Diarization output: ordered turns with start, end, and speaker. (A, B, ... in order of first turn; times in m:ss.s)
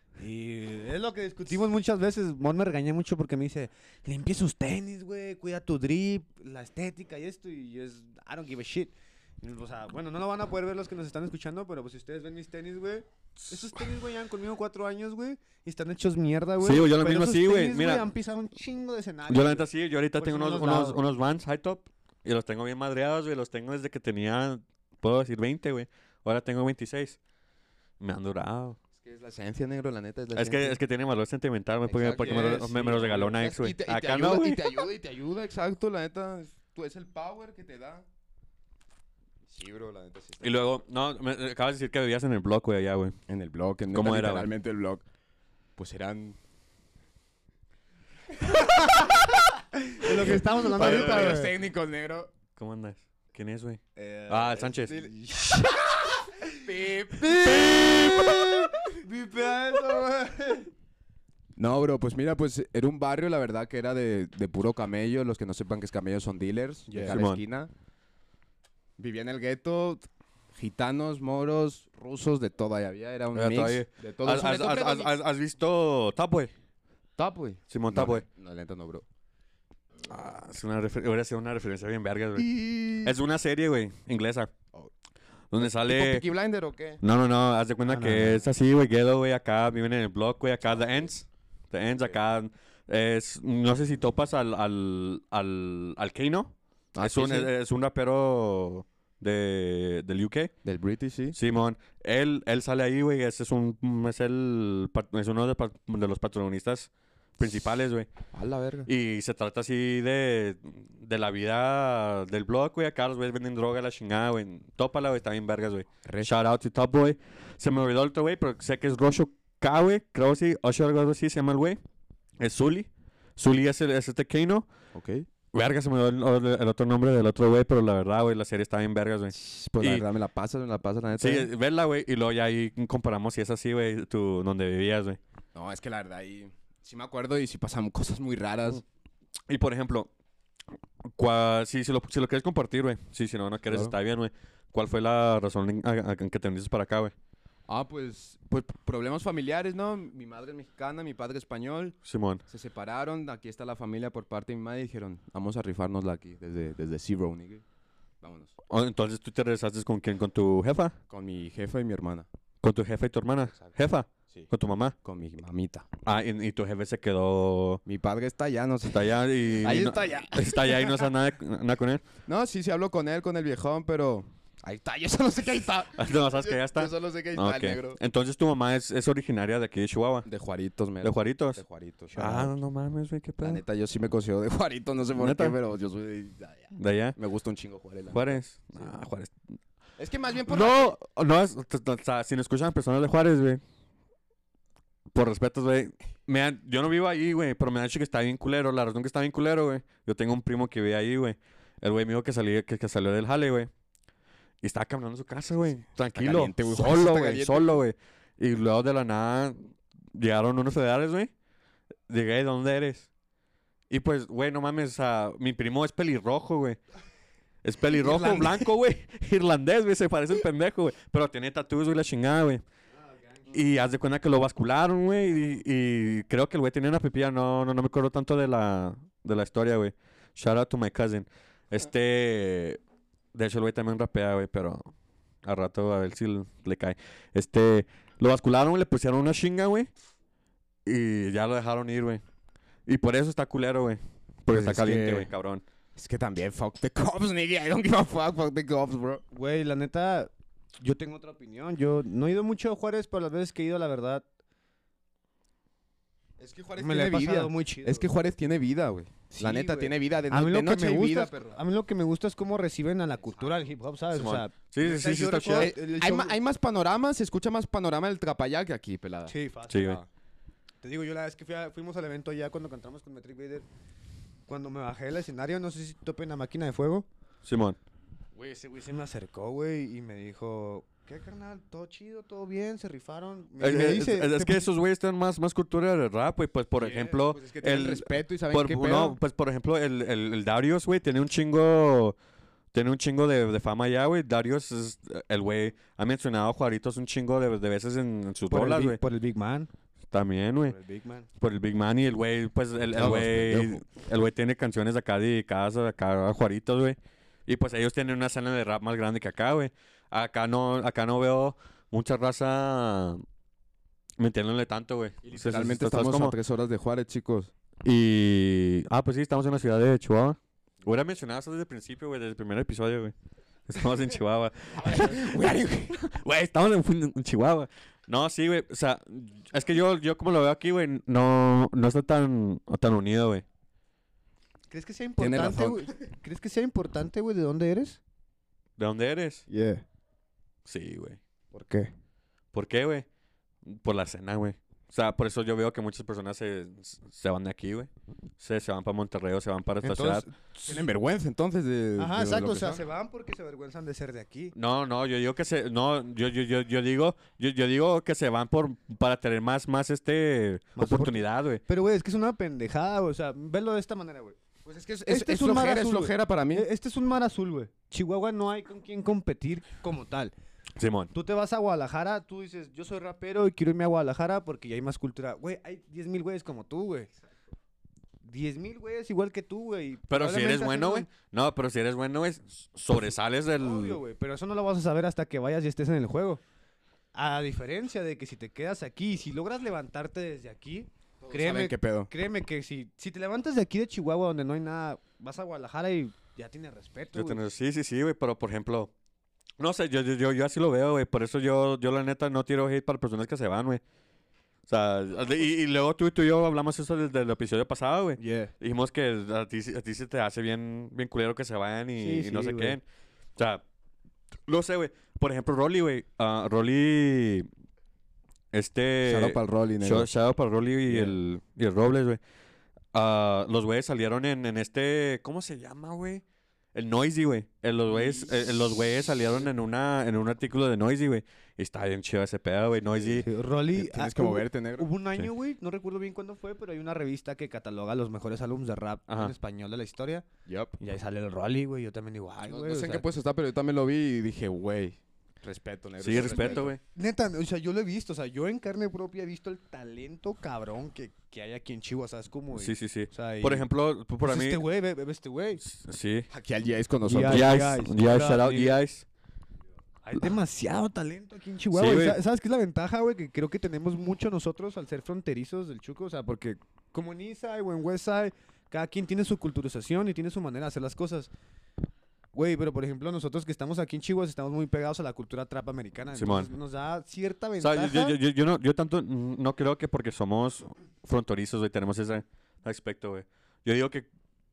0:00.2-0:21.0 A
0:16.6-0:18.1 B
0:19.3-0:27.2 B
0:28.0-0:28.8 B
0:29.0-0:30.8 C
0:30.3-0:34.8 B
0:31.9-0:38.0 C
0:32.2-0:32.6 A
0:39.5-0:40.7 C
0:40.4-0:43.1 B
0:43.3-0:45.0 C
0:43.9-0:44.5 B
0:45.8-0:46.4 C
0:48.4-0:51.5 A
0:48.5-0:49.3 C
0:50.0-0:52.3 C
0:50.2-0:51.4 B
0:52.6-0:55.1 B
0:54.0-0:56.6 A
0:56.6-0:58.8 C
0:57.4-0:58.4 B
0:58.8-1:00.7 A
1:01.6-1:07.7 C
1:06.9-1:07.2 A
1:07.0-1:07.4 B
1:09.0-1:15.1 C
1:13.3-1:16.5 B
1:17.2-1:19.0 C
1:17.7-1:18.2 B
1:20.0-1:22.5 B
1:22.4-1:23.2 C
1:23.0-1:24.5 B
1:25.5-1:26.2 B
1:25.6-1:27.0 C
1:27.0-1:40.5 B
1:27.8-1:28.4 A
1:36.9-1:37.5 C
1:40.6-1:41.4 C
1:41.3-1:48.1 B
1:48.3-1:48.9 C
1:48.8-2:01.8 B
1:56.0-1:56.3 C
2:02.4-2:04.7 B
2:04.9-2:05.2 C
2:05.5-2:10.0 B
2:09.3-2:11.5 C
2:11.2-2:15.2 B
2:15.5-2:18.8 C
2:19.5-2:20.1 B
2:21.0-2:27.1 B
2:27.7-2:37.6 C
2:32.0-2:32.4 B
2:38.2-2:38.5 C
2:38.7-2:41.0 B
2:41.1-2:42.3 C
2:42.6-2:44.9 B
2:45.0-2:45.9 C
2:46.0-2:47.8 B
2:47.8-2:51.0 C
2:48.9-2:52.0 B
2:52.3-2:58.0 C
2:56.0-3:00.2 B
3:00.2-3:02.5 C
3:01.0-3:01.6 B
3:02.1-3:03.6 B
3:03.4-3:08.4 C
3:05.2-3:05.6 B
3:06.7-3:07.2 B
3:08.1-3:09.4 B
3:10.0-3:10.9 C
3:10.5-3:13.6 B
3:15.1-3:23.7 B
3:24.6-3:31.3 B
3:26.1-3:27.8 C
3:32.1-3:33.1 B
3:33.9-3:36.8 B
3:37.6-3:42.6 B
3:37.9-3:38.7 C
3:43.0-3:43.6 A
3:43.5-3:52.8 B
3:53.3-3:54.8 B
3:55.4-3:59.9 B
4:00.8-4:02.2 B
4:02.8-4:05.6 B
4:04.5-4:05.3 C
4:06.0-4:09.2 C
4:09.3-4:14.2 A
4:16.4-4:21.6 C
4:16.8-4:18.1 A
4:19.3-4:26.4 A
4:24.1-4:25.7 B
4:25.5-4:29.3 C
4:29.3-4:30.0 A
4:29.7-4:30.0 B
4:30.8-4:33.6 A
4:34.5-4:37.1 A
4:37.4-4:37.8 B
4:38.4-4:38.7 C
4:38.6-4:44.7 A
4:43.6-4:52.2 B
4:46.8-4:49.2 C
4:52.7-4:59.0 B
4:58.5-4:59.7 A
5:00.1-5:00.8 B
5:00.6-5:01.3 A
5:01.4-5:13.2 B
5:02.9-5:03.8 C
5:14.2-5:16.4 B
5:15.2-5:17.5 C
5:17.8-5:23.1 B
5:23.7-5:33.4 B
5:24.8-5:26.1 C
5:34.7-5:38.0 A
5:35.2-5:35.9 C
5:38.8-5:39.4 B
5:39.5-5:39.8 A
5:40.6-5:41.2 B
5:41.5-5:41.9 A
5:42.5-5:43.0 B
5:43.6-5:50.2 B
5:49.8-5:50.8 A
5:50.6-5:52.8 C
5:52.0-5:54.5 A
5:54.5-6:01.6 B
6:00.8-6:04.4 A
6:04.6-6:06.6 C
6:05.1-6:10.3 A
6:10.8-6:11.1 B
6:11.1-6:17.1 A
6:18.2-6:21.1 A
6:20.1-6:24.0 B
6:23.6-6:26.4 A
6:27.1-6:37.4 A
6:31.2-6:32.1 C
6:37.1-6:38.9 B
6:39.6-6:43.8 B
6:44.7-6:52.8 B
6:48.2-6:48.5 A
6:52.0-6:52.8 A
6:53.4-6:53.6 B
6:54.5-6:57.5 B
6:58.5-7:02.2 B
6:59.0-7:00.1 C
7:02.9-7:13.3 B
7:13.2-7:20.2 A
7:13.7-7:14.9 C
7:20.4-7:20.8 C
7:20.8-7:23.0 A
7:22.4-7:26.7 C
7:26.0-7:26.8 B
7:26.2-7:33.7 A
7:32.5-7:34.6 B
7:34.2-7:35.6 A
7:35.6-7:36.3 B
7:36.3-7:37.6 C
7:37.0-7:38.8 A
7:37.2-7:39.0 B
7:40.0-7:51.3 A
7:41.7-7:42.2 B
7:52.3-7:58.2 A
7:56.1-7:56.5 B
7:57.6-8:04.1 B